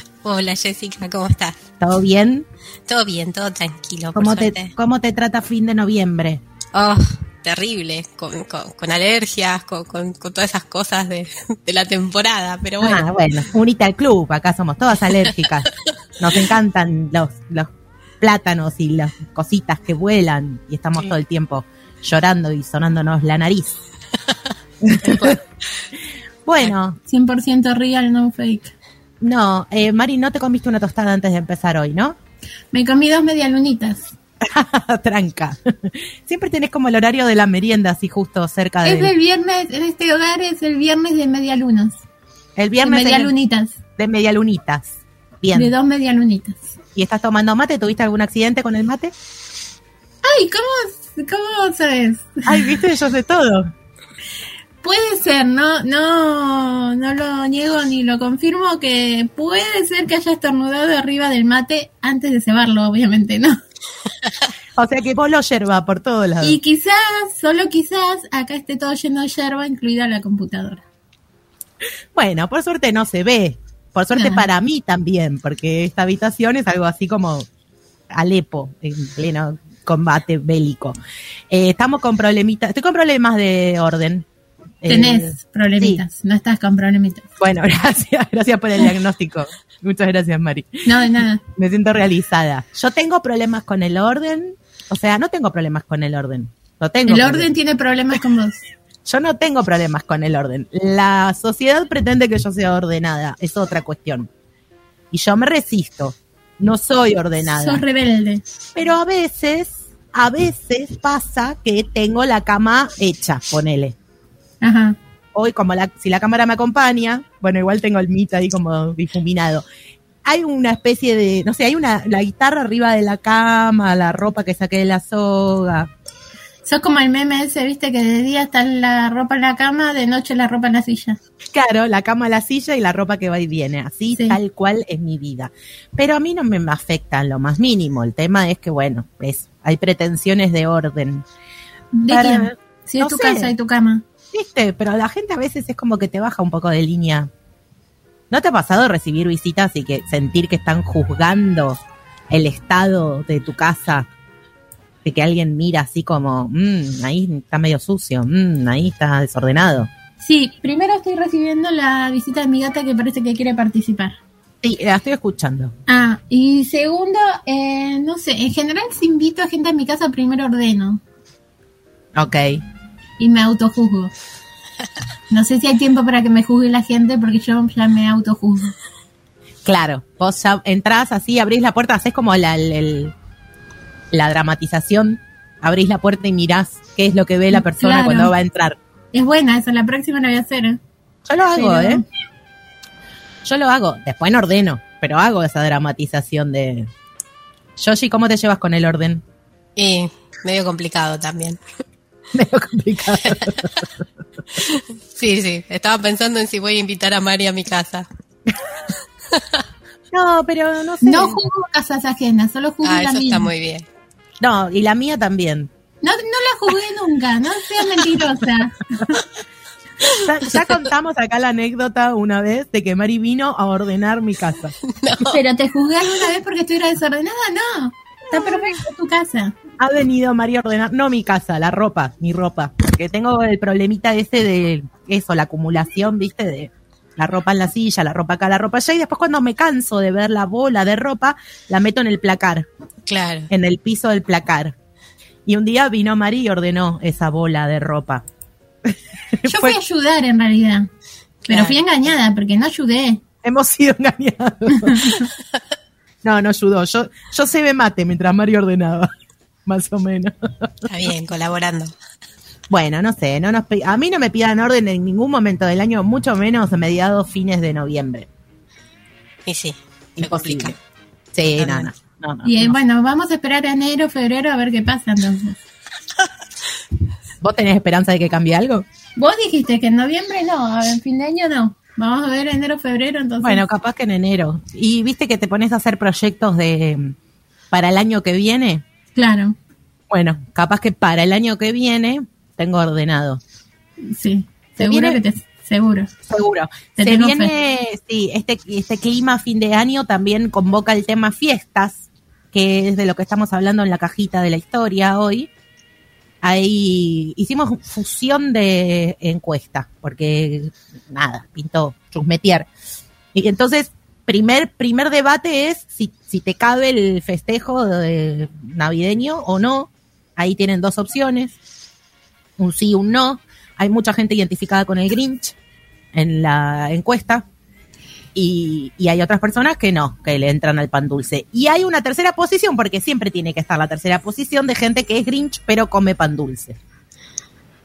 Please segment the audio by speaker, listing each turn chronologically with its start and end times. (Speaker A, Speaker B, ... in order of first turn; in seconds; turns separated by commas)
Speaker A: 0.2-1.6, Speaker B: 1.8-2.5, Speaker A: 2.9-4.7, Speaker B: 4.2-6.4, Speaker A: 6.7-13.1, Speaker B: 12.8-23.8, Speaker B: 24.8-25.4, Speaker A: 25.0-25.4, Speaker B: 26.4-27.0, Speaker C: 27.1-28.7, Speaker B: 29.2-32.2, Speaker C: 32.7-34.1, Speaker B: 34.4-39.1, Speaker C: 38.9-42.0, Speaker B: 42.6-43.3, Speaker C: 42.8-43.8, Speaker B: 44.0-45.7, Speaker C: 45.5-46.8, Speaker B: 47.0-49.1, Speaker C: 50.2-52.8, Speaker B: 52.5-53.7, Speaker C: 54.8-63.6, Speaker B: 64.8-66.6, Speaker C: 66.4-70.8, Speaker B: 72.1-77.5, Speaker C: 74.2-74.5, Speaker B: 78.1-81.0, Speaker B: 81.5-84.3, Speaker B: 84.8-86.0, Speaker C: 84.9-87.3, Speaker B: 87.4-90.9, Speaker C: 90.9-91.4, Speaker B: 91.5-97.5, Speaker C: 97.1-98.6, Speaker B: 99.1-104.3, Speaker B: 105.1-107.8, Speaker C: 107.5-108.4, Speaker B: 108.8-114.0, Speaker C: 114.6-115.0, Speaker B: 115.3-119.7, Speaker B: 120.2-125.9, Speaker C: 126.7-131.2, Speaker B: 131.5-141.2, Speaker C: 141.9-144.0, Speaker B: 142.1-143.5, Speaker B: 144.3-147.3, Speaker B: 148.3-154.1, Speaker B: 155.1-159.9, Speaker C: 160.2-164.2, Speaker B: 164.6-165.7, Speaker C: 165.9-171.0, Speaker B: 172.2-172.6, Speaker C: 173.2-174.1, Speaker C: 175.3-178.7, Speaker B: 179.7-183.1, Speaker B: 184.1-188.8, Speaker C: 187.5-188.3, Speaker C: 189.1-190.8, Speaker B: 191.3-192.0, Speaker C: 191.6-192.0, Speaker B: 193.4-196.9, Speaker B: 197.8-199.2, Speaker A: 199.8-201.6, Speaker B: 202.3-203.9, Speaker A: 204.6-208.1, Speaker B: 210.1-211.4, Speaker C: 211.0-213.5, Speaker A: 212.8-213.9, Speaker B: 214.4-215.7, Speaker C: 216.0-219.2, Speaker B: 220.1-224.8, Speaker A: 224.9-225.4, Speaker C: 225.3-229.5, Speaker B: 229.8-242.7, Speaker A: 243.1-243.5, Speaker B: 243.5-244.8, Speaker B: 245.5-248.2, Speaker B: 248.9-249.8, Speaker C: 249.4-250.9, Speaker C: 251.5-253.2, Speaker A: 251.5-251.8, Speaker B: 253.4-255.3, Speaker C: 254.8-255.3, Speaker B: 256.2-259.1, Speaker B: 259.7-260.8, Speaker A: 260.9-261.9, Speaker B: 262.7-268.3, Speaker A: 269.5-270.8, Speaker B: 270.2-270.8, Speaker B: 271.3-272.8, Speaker A: 271.6-271.9, Speaker C: 272.4-275.6, Speaker B: 277.4-278.9, Speaker C: 279.2-283.6, Speaker B: 283.4-287.1, Speaker B: 287.7-288.8, Speaker C: 289.2-289.6, Speaker B: 290.1-293.4, Speaker C: 294.0-296.1, Speaker B: 294.8-295.2, Speaker B: 296.3-305.5, Speaker C: 297.0-297.5, Speaker B: 306.4-312.7, Speaker B: 313.3-321.6, Speaker B: 322.6-325.6, Speaker B: 326.1-327.4, Speaker B: 328.4-336.8